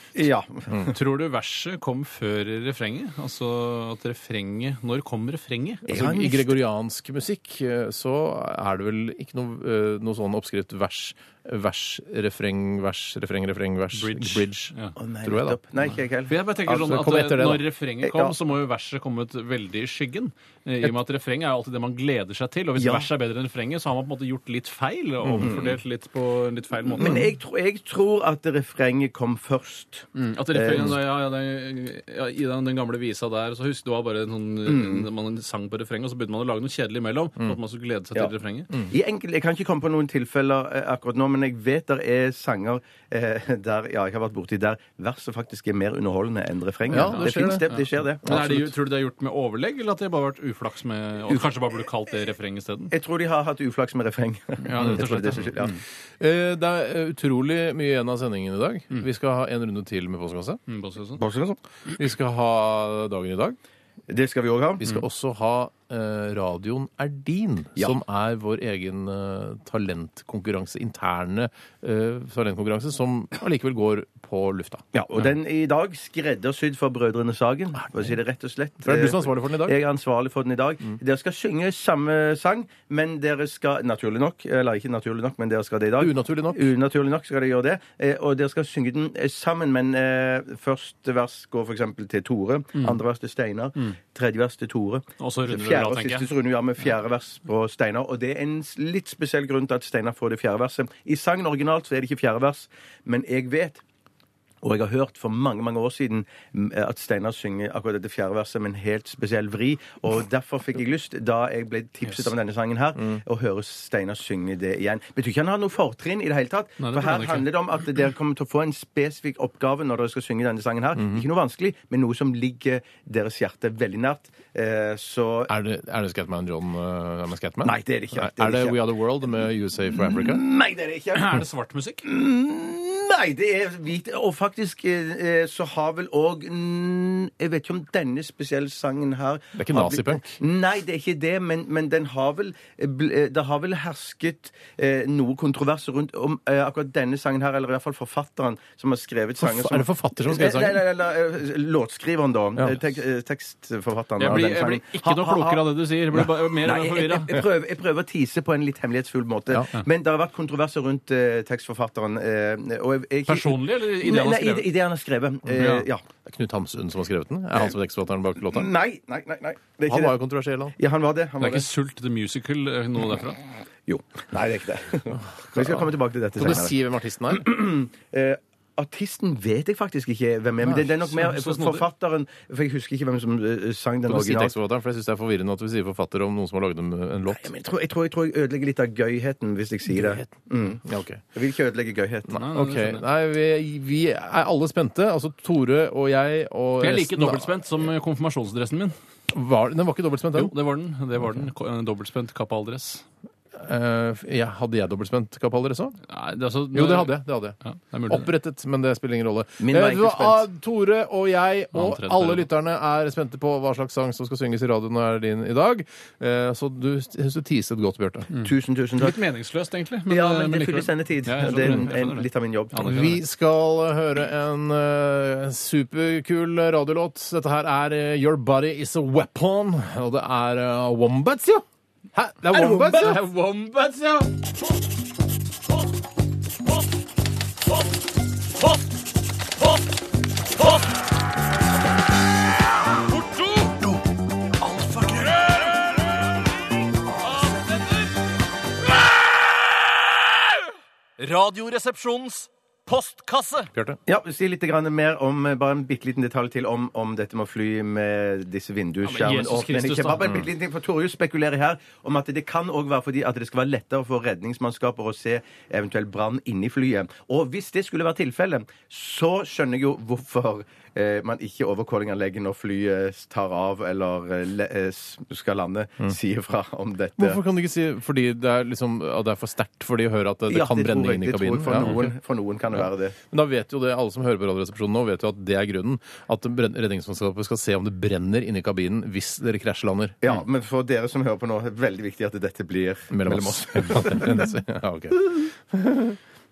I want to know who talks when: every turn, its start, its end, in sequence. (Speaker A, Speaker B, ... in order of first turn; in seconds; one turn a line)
Speaker A: 0.1-0.9
Speaker B: 0.9-5.8
Speaker A: 5.9-6.6
Speaker C: 5.9-15.6
Speaker B: 13.9-15.0
Speaker A: 15.0-16.4
Speaker B: 16.3-27.3
Speaker C: 16.7-17.7
Speaker A: 18.0-18.4
Speaker A: 22.8-23.1
Speaker C: 25.2-25.5
Speaker A: 25.4-25.8
Speaker A: 27.0-30.9
Speaker C: 27.0-27.3
Speaker B: 30.1-38.7
Speaker A: 34.7-35.1
Speaker A: 38.9-48.5
Speaker C: 46.9-47.7
Speaker B: 47.0-52.9
Speaker C: 48.2-48.7
Speaker A: 52.9-55.8
Speaker B: 54.6-55.8
Speaker C: 56.2-60.6
Speaker B: 60.7-61.2
Speaker A: 61.2-61.6
Speaker C: 62.0-63.6
Speaker A: 64.1-64.9
Speaker C: 64.8-74.8
Speaker A: 74.9-103.8
Speaker C: 78.8-79.8
Speaker C: 86.0-86.7
Speaker B: 95.2-96.3
Speaker A: 104.6-125.5
Speaker B: 116.8-117.5
Speaker C: 121.0-121.2
Speaker C: 125.5-130.4
Speaker A: 127.6-128.9
Speaker A: 130.0-131.4
Speaker B: 131.1-132.1
Speaker A: 132.1-155.6
Speaker C: 139.6-140.4
Speaker C: 149.4-150.8
Speaker B: 154.2-157.3
Speaker A: 156.6-166.0
Speaker B: 163.3-164.7
Speaker B: 165.6-165.8
Speaker C: 166.2-168.7
Speaker A: 168.5-170.2
Speaker C: 169.9-170.8
Speaker A: 170.8-171.7
Speaker B: 171.4-173.4
Speaker A: 173.9-176.8
Speaker C: 175.5-177.5
Speaker A: 177.3-184.5
Speaker C: 180.6-180.9
Speaker B: 181.1-181.9
Speaker C: 184.1-187.5
Speaker A: 187.3-190.8
Speaker C: 189.9-191.2
Speaker A: 191.3-192.3
Speaker C: 192.3-197.5
Speaker B: 192.3-193.1
Speaker B: 196.8-198.9
Speaker C: 199.3-200.5
Speaker B: 200.3-203.1
Speaker C: 203.6-206.0
Speaker B: 206.1-208.3
Speaker C: 206.7-207.6
Speaker C: 208.1-218.3
Speaker A: 209.6-210.5
Speaker B: 211.7-212.5
Speaker B: 218.3-223.2
Speaker A: 218.4-219.2
Speaker A: 220.1-223.1
Speaker C: 222.8-233.2
Speaker B: 232.5-234.3
Speaker B: 240.6-240.8
Speaker B: 243.0-244.0
Speaker B: 244.6-245.8
Speaker B: 247.2-248.1
Speaker B: 251.2-253.7
Speaker A: 254.1-277.4
Speaker B: 259.0-260.3
Speaker C: 277.2-282.1
Speaker A: 280.5-283.2
Speaker C: 282.8-290.2
Speaker A: 290.2-294.4
Speaker C: 293.1-296.2